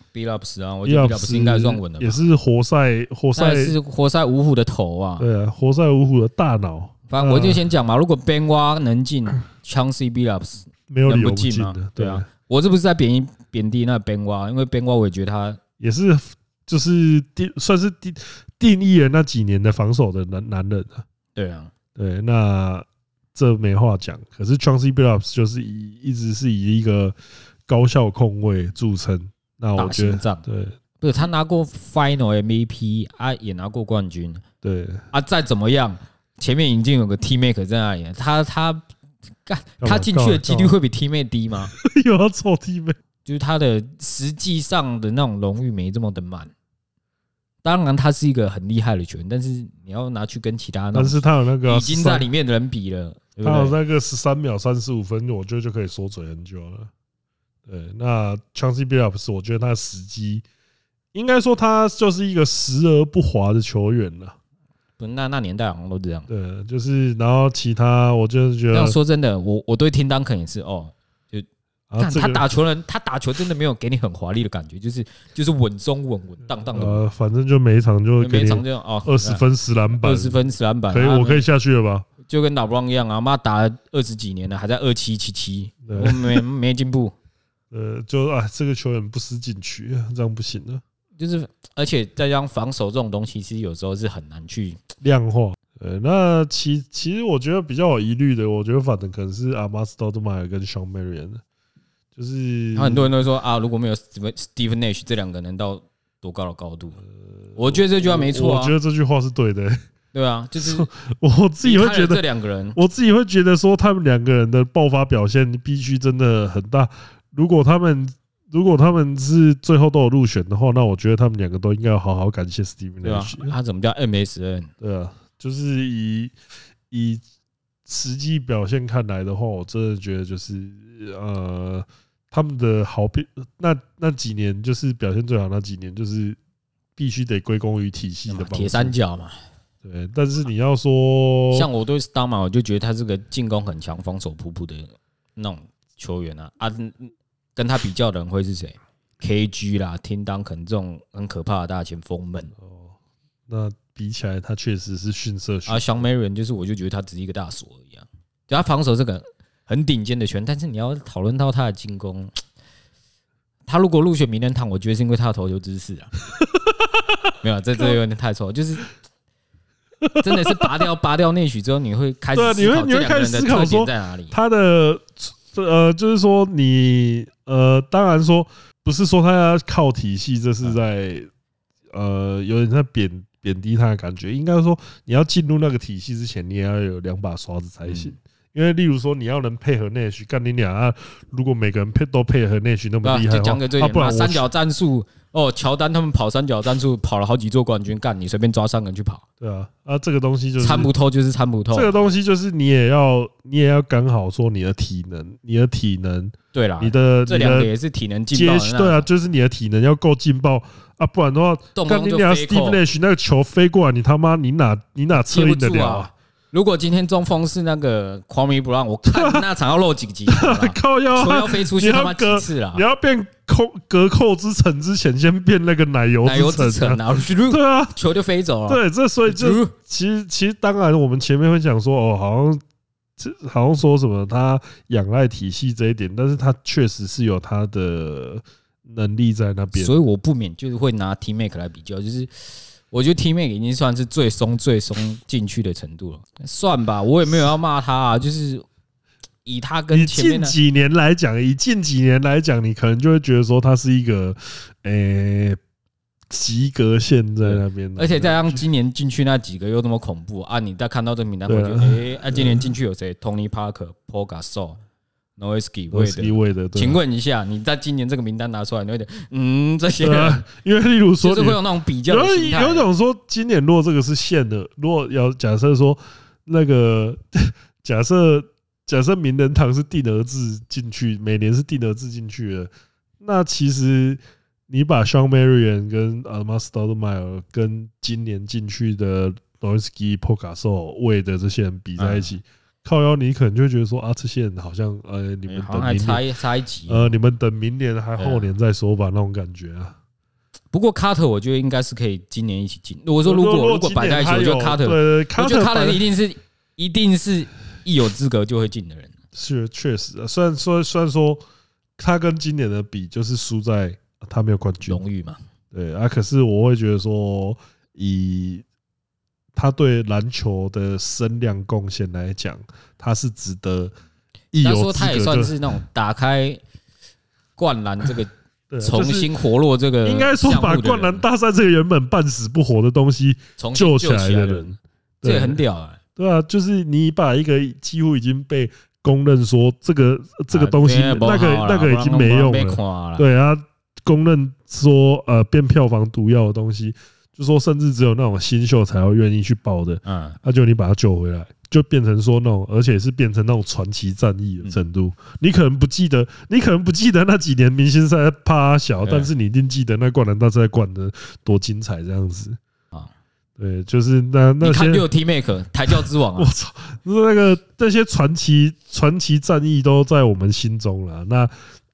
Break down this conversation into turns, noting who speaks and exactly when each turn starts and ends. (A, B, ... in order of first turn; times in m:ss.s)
0:00.1-0:02.2 A
0:00.8-0:03.8 B
0:03.4-0:05.2 A
0:05.2-0:07.6 B
0:07.1-0:15.6 A
0:10.9-0:12.3 B
0:15.8-0:21.0 B
0:21.4-0:21.7 A
0:22.0-0:27.2 B
0:27.7-0:30.8 B
0:29.8-0:30.4 A
0:31.0-0:34.4 A
0:34.6-0:35.0 B
0:35.1-0:38.8 A
0:39.4-0:41.7 A
0:39.8-0:40.8 B
0:41.7-0:43.0 B
0:43.2-0:46.5 A
0:47.6-0:53.8 A
0:50.9-0:52.3 B
0:53.4-0:56.9 B
0:57.7-1:00.4 B
1:01.1-1:04.4 B
1:05.0-1:06.3 A
1:06.3-1:09.0 B
1:08.7-1:11.5 A
1:11.9-1:12.4 B
1:12.0-1:17.0 A
1:16.7-1:22.1 B
1:18.2-1:19.4 A
1:20.0-1:21.4 A
1:22.2-1:27.2 A
1:25.9-1:26.4 B
1:27.7-1:30.8 B
1:31.2-1:34.8 A
1:35.0-1:41.4 B
1:42.2-1:43.1 B
1:42.8-1:47.0 A
1:47.4-1:49.8 B
1:47.6-1:48.7 A
1:50.1-1:50.9 A
1:50.6-1:52.2 B
1:51.6-1:52.8 A
1:52.8-2:03.6 B
2:03.0-2:04.7 A
2:04.8-2:06.3 B
2:06.9-2:07.2 B
2:07.9-2:16.4 B
2:17.0-2:19.0 B
2:18.3-2:19.4 A
2:19.8-2:21.7 B
2:21.5-2:32.5 A
2:32.6-2:32.9 B
2:33.5-2:36.0 B
2:35.7-2:42.3 A
2:43.7-2:46.1 A
2:46.7-2:47.3 B
2:47.4-2:48.9 A
2:50.0-2:50.9 B
2:50.2-2:54.3 A
2:52.3-3:01.3 B
3:01.9-3:14.5 B
3:07.9-3:08.1 A
3:13.0-3:19.2 A
3:19.4-3:20.9 B
3:20.6-3:21.9 A
3:21.7-3:27.7 B
3:26.5-3:29.1 A
3:28.3-3:36.1 B
3:31.8-3:32.8 A
3:35.3-3:42.8 A
3:39.0-3:39.5 B
3:40.3-3:48.0 B
3:46.2-3:49.7 A
3:48.7-3:52.6 B
3:53.2-4:00.0 B
3:59.7-4:08.6 A
4:09.4-4:10.6 A
4:09.9-4:15.6 B
4:16.3-4:18.6 B
4:17.4-4:24.8 A
4:21.5-4:22.7 B
4:25.4-4:30.4 A
4:25.9-4:27.0 B
4:30.0-4:42.7 B
4:31.2-4:32.9 A
4:43.2-4:56.2 B
4:52.0-4:52.3 A
4:55.5-4:57.2 A
4:56.9-5:00.0 B
4:58.2-4:58.5 A
5:00.7-5:09.1 A
5:03.2-5:06.0 B
5:09.3-5:11.4 B
5:12.0-5:15.0 B
5:14.9-5:15.4 A
5:15.7-5:18.6 B
5:19.6-5:23.9 B
5:24.5-5:25.6 B
5:24.6-5:26.6 A
5:27.6-5:28.3 A
5:28.7-5:29.3 B
5:28.8-5:31.2 A
5:30.0-5:35.6 B
5:33.6-5:34.7 A
5:35.2-5:36.0 A
5:36.2-6:02.6 B
5:40.5-5:43.2 A
5:50.0-5:50.4 A
5:59.0-5:59.3 A
6:03.6-6:05.0 B
6:04.6-6:06.5 A
6:05.9-6:11.5 B